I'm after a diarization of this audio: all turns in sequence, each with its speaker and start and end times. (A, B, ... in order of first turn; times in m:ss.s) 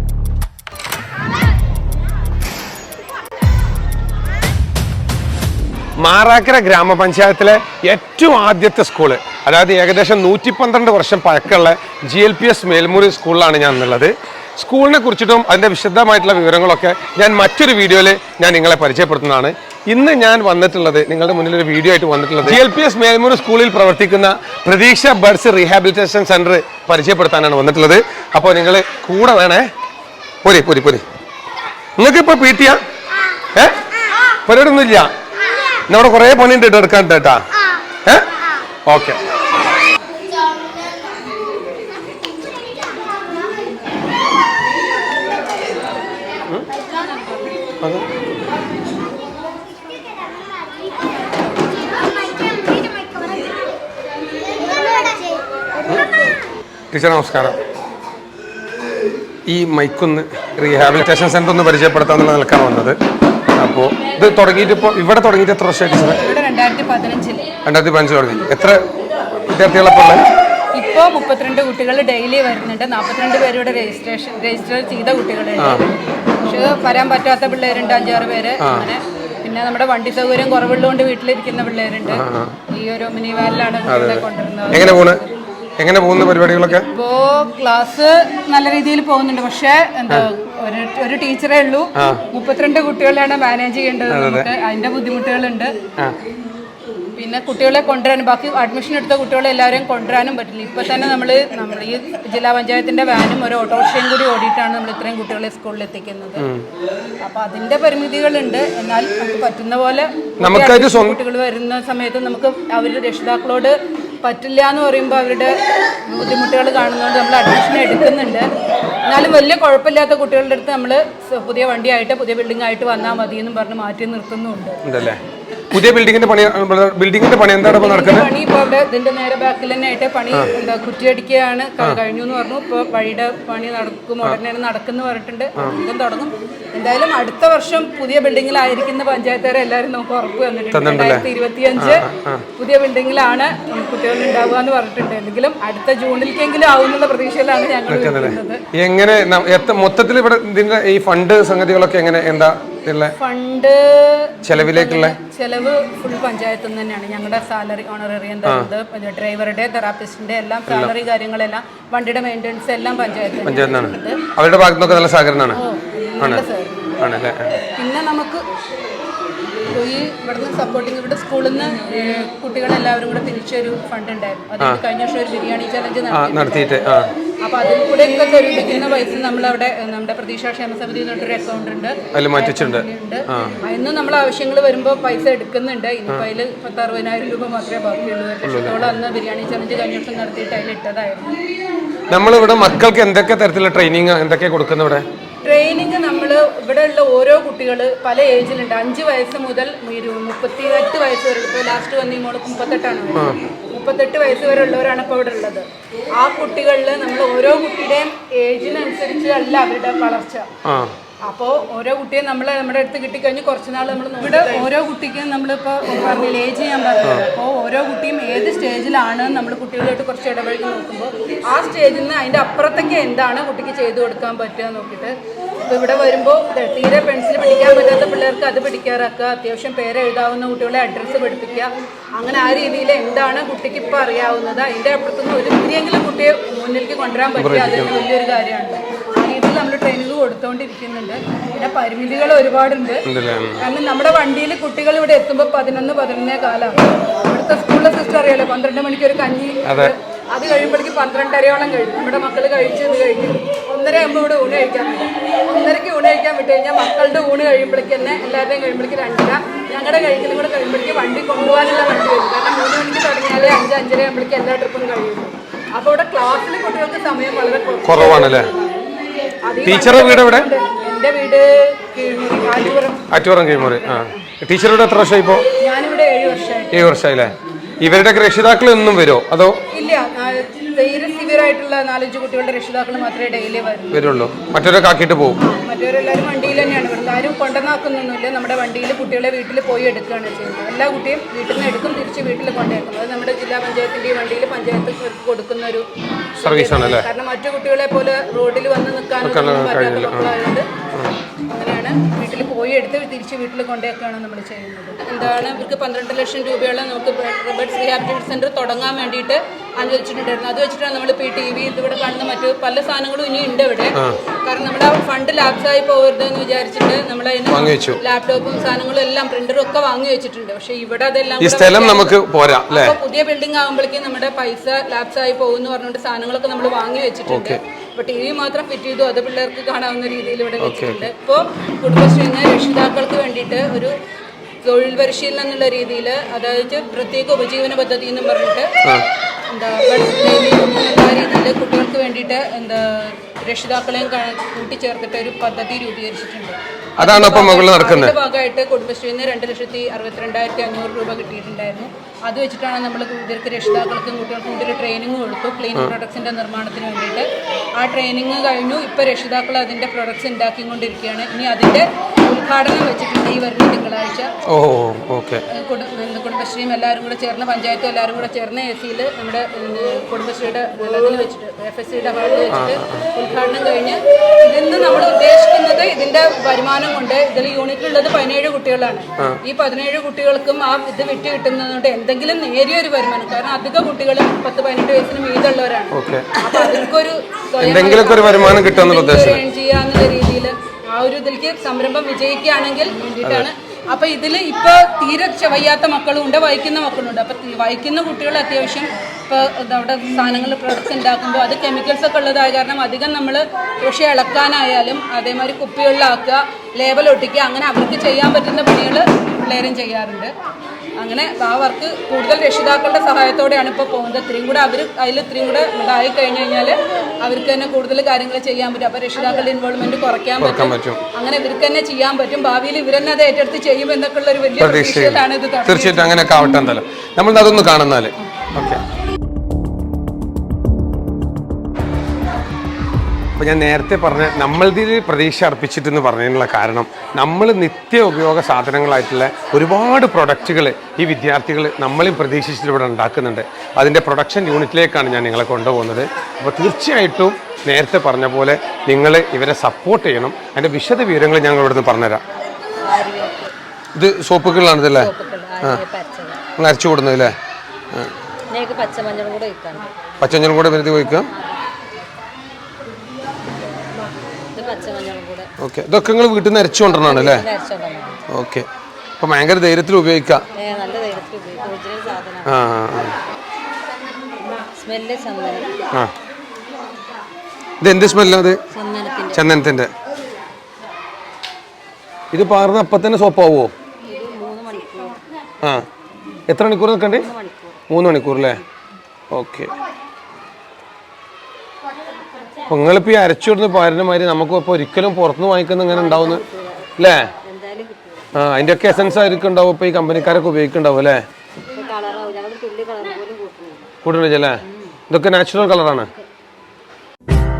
0:06.0-0:29.7 A
0:30.4-0:31.0 A
0:32.0-0:32.8 A
0:34.4-0:35.1 A
0:35.9-0:37.4 A
0:38.9-0:39.2 A
0:47.8-0:48.1 A
0:56.9-0:57.6 A
0:59.5-1:03.0 A
1:03.5-1:06.2 A
1:06.2-1:07.5 B
1:07.6-1:08.8 A
1:09.5-1:10.2 A
1:10.7-1:15.9 B
1:15.6-1:15.8 A
1:16.4-1:25.2 B
1:18.6-1:18.9 A
1:22.1-1:22.6 A
1:23.9-1:25.2 A
1:25.8-1:26.9 A
1:26.9-1:35.7 B
1:32.0-1:32.2 A
1:34.1-1:34.5 A
1:37.2-1:46.4 B
1:46.4-1:46.6 A
1:47.2-1:55.6 B
1:50.4-1:51.2 A
1:56.1-1:58.5 B
1:59.1-2:04.8 B
2:04.8-2:05.2 A
2:05.7-2:08.3 A
2:07.6-2:22.0 B
2:20.7-2:22.4 A
2:22.6-2:28.6 B
2:27.9-2:33.1 A
2:33.2-2:44.2 B
2:34.4-2:35.2 A
2:38.4-2:38.7 A
2:40.7-2:40.9 A
2:43.4-2:45.6 A
2:45.6-2:46.8 B
2:46.2-2:46.4 A
2:47.0-2:47.5 A
2:47.8-2:48.4 B
2:49.7-2:56.8 B
2:56.1-2:57.1 A
2:57.4-3:11.4 B
3:02.1-3:03.6 A
3:08.4-3:08.9 A
3:12.1-3:15.0 A
3:15.4-3:25.6 B
3:23.1-3:23.4 A
3:26.2-3:30.5 B
3:30.6-3:30.9 A
3:31.2-3:45.1 B
3:45.7-4:03.0 B
3:57.4-3:57.9 A
4:03.0-4:03.6 A
4:03.6-4:28.7 B
4:09.6-4:09.9 A
4:27.8-4:28.5 A
4:29.4-4:33.0 B
4:29.6-4:30.5 A
4:33.1-4:35.4 A
4:33.6-4:34.0 B
4:35.6-4:36.9 B
4:36.7-4:39.6 A
4:39.7-4:44.0 B
4:43.9-4:45.4 A
4:45.4-4:55.8 B
4:56.4-5:00.7 B
4:56.4-4:57.1 A
4:59.2-5:00.3 A
5:01.5-5:33.9 B
5:17.5-5:18.0 A
5:21.4-5:22.9 A
5:27.3-5:27.6 A
5:30.6-5:31.0 A
5:34.6-5:38.7 B
5:39.5-5:57.3 B
5:47.0-5:48.2 A
5:57.8-6:04.3 B
6:04.5-6:05.4 A
6:05.5-6:50.3 B
6:12.5-6:13.0 A
6:25.9-6:26.4 A
6:27.6-6:29.4 A
6:33.2-6:33.5 A
6:51.0-7:06.2 B
7:00.4-7:01.0 A
7:04.6-7:08.8 A
7:13.4-7:32.2 A
7:32.8-7:33.5 C
7:33.9-7:35.8 A
7:35.0-7:36.4 C
7:36.6-7:37.4 A
7:38.5-7:39.9 C
7:40.2-7:41.3 A
7:41.3-7:41.6 C
7:44.5-7:45.5 C
7:45.6-7:47.4 A
7:46.9-7:48.2 C
7:48.3-7:48.7 A
7:49.2-7:50.4 A
7:50.6-7:52.6 C
7:52.4-7:53.2 A
7:54.7-7:55.7 C
7:57.8-7:58.6 A
7:58.7-7:59.4 C
7:59.3-7:59.9 A
8:02.3-8:03.7 A
8:04.0-8:05.2 C
8:06.5-8:07.3 A
8:07.1-8:07.8 C
8:07.9-8:08.6 A
8:09.3-8:09.7 A
8:12.7-8:16.4 A
8:15.9-8:18.3 C
8:17.0-8:17.3 A
8:18.3-8:21.2 A
8:21.7-8:23.9 C
8:24.0-8:26.1 A
8:24.6-8:25.0 C